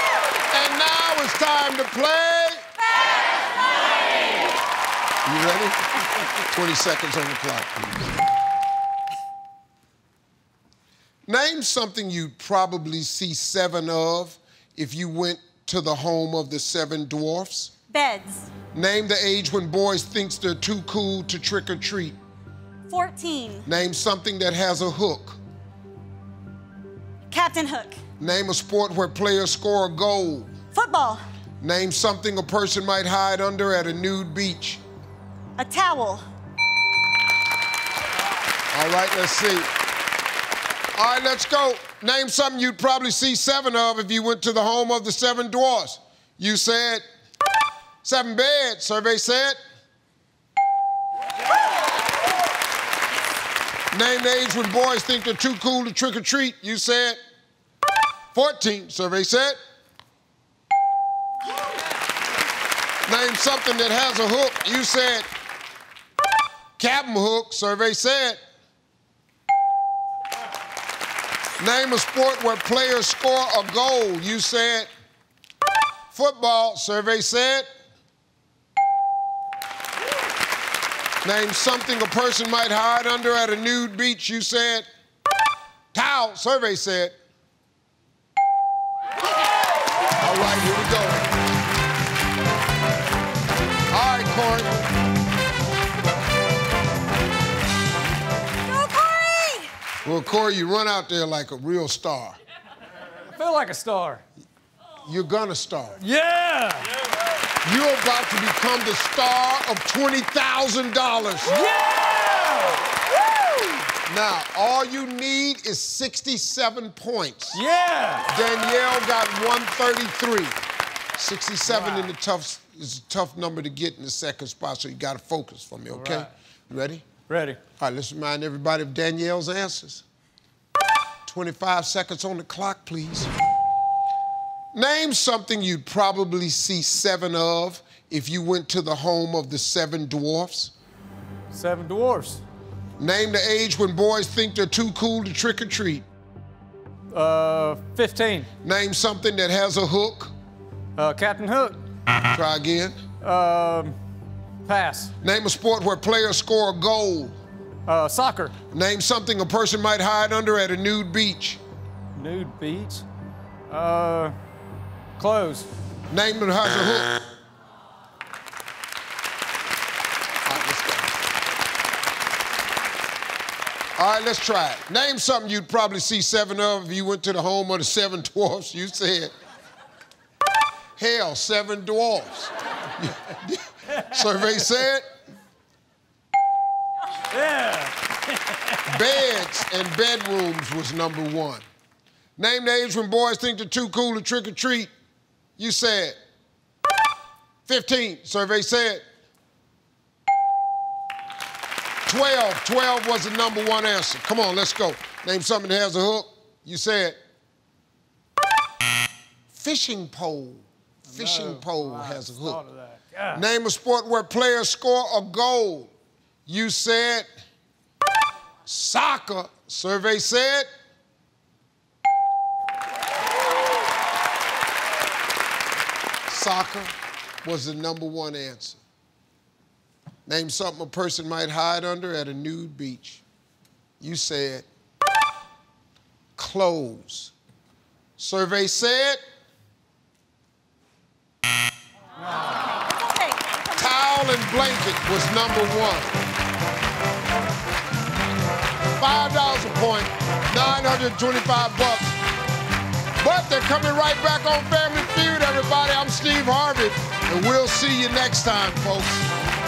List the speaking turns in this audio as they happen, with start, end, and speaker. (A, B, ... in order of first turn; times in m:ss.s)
0:00.5-0:02.6 A
0:05.2-0:07.9 A
0:11.3-0:17.7 A
0:17.9-0:18.5 B
0:18.7-0:22.2 A
0:22.9-0:23.7 B
0:23.7-0:25.4 A
0:27.3-0:28.0 B
0:28.2-0:30.5 A
0:30.7-0:31.2 B
0:31.6-0:34.8 A
0:35.6-0:36.2 B
0:38.7-0:39.7 A
0:41.0-0:47.0 A
0:48.0-0:49.6 A
0:53.9-0:57.2 A
0:58.3-0:59.6 A
1:03.1-1:05.3 A
1:06.8-1:08.4 A
1:11.6-1:14.9 A
1:16.1-1:17.7 A
1:21.2-1:24.9 A
1:25.9-1:27.1 A
1:30.2-1:31.3 A
1:33.9-1:34.7 A
1:38.7-1:39.7 B
1:40.0-1:42.4 A
1:43.3-1:44.2 C
1:45.0-1:46.0 A
1:46.0-1:46.9 C
1:47.6-1:51.7 A
1:51.4-1:52.9 C
1:53.5-1:53.8 C
1:54.0-1:57.6 A
1:57.5-1:58.3 C
1:58.3-2:00.6 A
2:01.2-2:07.0 A
2:01.6-2:02.1 C
2:05.9-2:06.3 C
2:07.3-2:07.6 C
2:07.8-2:10.0 A
2:11.2-2:13.3 A
2:14.7-2:20.7 A
2:21.5-2:22.4 C
2:23.0-2:26.0 A
2:27.1-2:28.5 C
2:28.6-2:30.3 A
2:31.0-2:31.8 C
2:32.3-2:33.0 A
2:33.2-2:34.0 C
2:34.6-2:35.1 C
2:35.2-2:37.4 A
2:37.9-2:38.6 C
2:38.7-2:41.6 A
2:42.2-2:43.1 C
2:43.7-2:44.4 C
2:45.2-2:45.7 C
2:46.1-2:47.2 A
2:50.4-2:51.2 A
2:54.0-2:59.3 A
3:01.0-3:05.1 A
3:07.3-3:09.1 C
3:08.9-3:11.7 A
3:12.4-3:14.9 A
3:15.6-3:16.2 A
3:17.7-3:19.0 A
3:22.1-3:27.2 A
3:29.5-3:32.6 A
3:31.1-3:33.5 C
3:33.3-3:35.9 A
3:36.5-3:37.3 A
3:38.7-3:40.7 A
3:46.3-3:48.8 A
3:50.3-3:53.2 A
3:54.0-3:54.7 A
3:56.4-3:57.3 A
3:58.2-3:59.2 A
4:02.9-4:03.9 B
4:03.8-4:06.1 A
4:09.0-4:12.2 A
4:13.2-4:19.3 A